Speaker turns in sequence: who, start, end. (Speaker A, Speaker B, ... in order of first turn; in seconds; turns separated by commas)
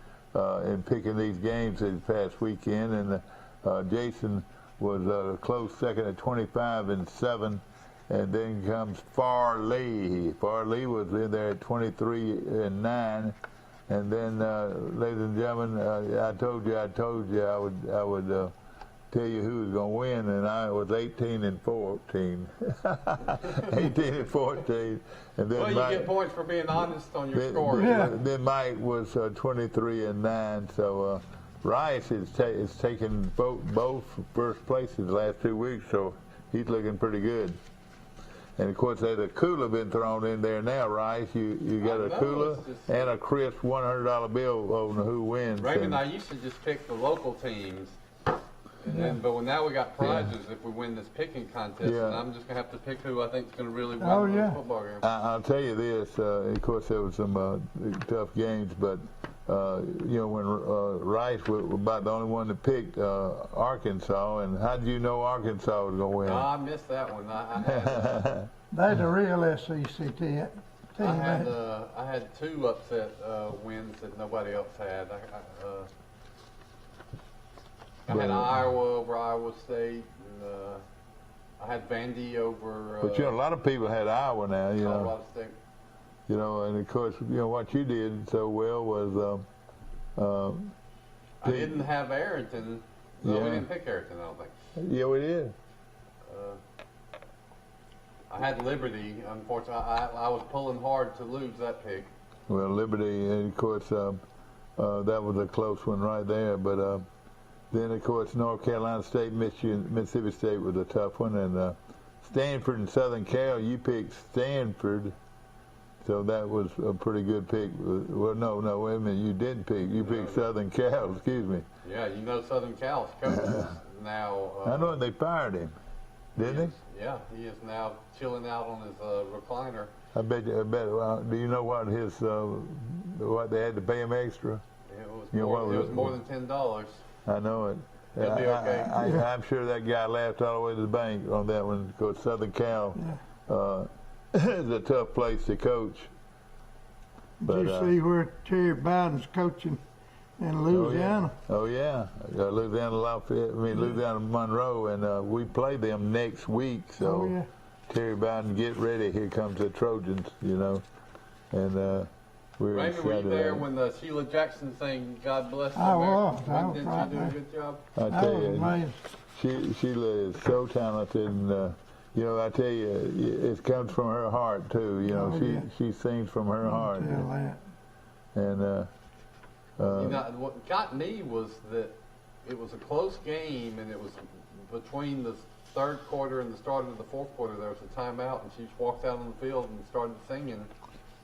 Speaker A: 0.3-13.4, Speaker A: 13.9-18.5, Speaker A: 19.1-26.1, Speaker B: 25.6-28.2, Speaker A: 27.3-37.6, Speaker C: 27.7-28.1, Speaker A: 38.6-46.0, Speaker B: 41.8-43.1, Speaker B: 45.6-48.0, Speaker B: 48.8-55.0, Speaker C: 48.9-49.2, Speaker A: 50.0-50.3, Speaker A: 51.8-52.2, Speaker C: 54.0-54.6, Speaker A: 55.0-66.5, Speaker B: 66.2-68.2, Speaker A: 67.6-68.5, Speaker C: 68.7-71.5, Speaker B: 71.0-75.9, Speaker B: 78.1-80.8, Speaker A: 78.1-78.6, Speaker B: 81.6-83.4, Speaker A: 83.0-85.1, Speaker B: 84.8-85.5, Speaker A: 86.3-89.5, Speaker A: 90.2-90.8, Speaker B: 91.4-94.5, Speaker A: 91.4-91.8, Speaker A: 93.2-93.7, Speaker A: 94.8-95.5, Speaker B: 96.3-96.6, Speaker B: 98.3-102.1, Speaker A: 102.5-104.2, Speaker A: 104.8-107.1, Speaker A: 107.7-115.1, Speaker A: 116.0-121.7, Speaker B: 120.0-120.4, Speaker B: 121.8-125.0, Speaker A: 124.6-125.7, Speaker B: 126.4-129.9, Speaker A: 126.4-126.7, Speaker A: 130.2-134.6, Speaker B: 134.9-137.0, Speaker A: 135.3-136.2, Speaker A: 137.3-146.1, Speaker B: 138.2-139.0, Speaker C: 139.0-139.3, Speaker C: 147.4-149.8, Speaker A: 147.4-147.9, Speaker C: 150.4-151.3, Speaker A: 150.7-157.3, Speaker C: 157.0-157.5, Speaker A: 157.9-160.8, Speaker A: 161.5-163.7, Speaker B: 162.7-167.8, Speaker C: 165.8-167.3, Speaker A: 167.9-168.8, Speaker C: 168.1-169.0, Speaker A: 169.3-177.3, Speaker C: 175.1-175.7, Speaker C: 176.6-177.6, Speaker A: 178.3-178.9, Speaker A: 179.8-180.2, Speaker B: 179.8-190.7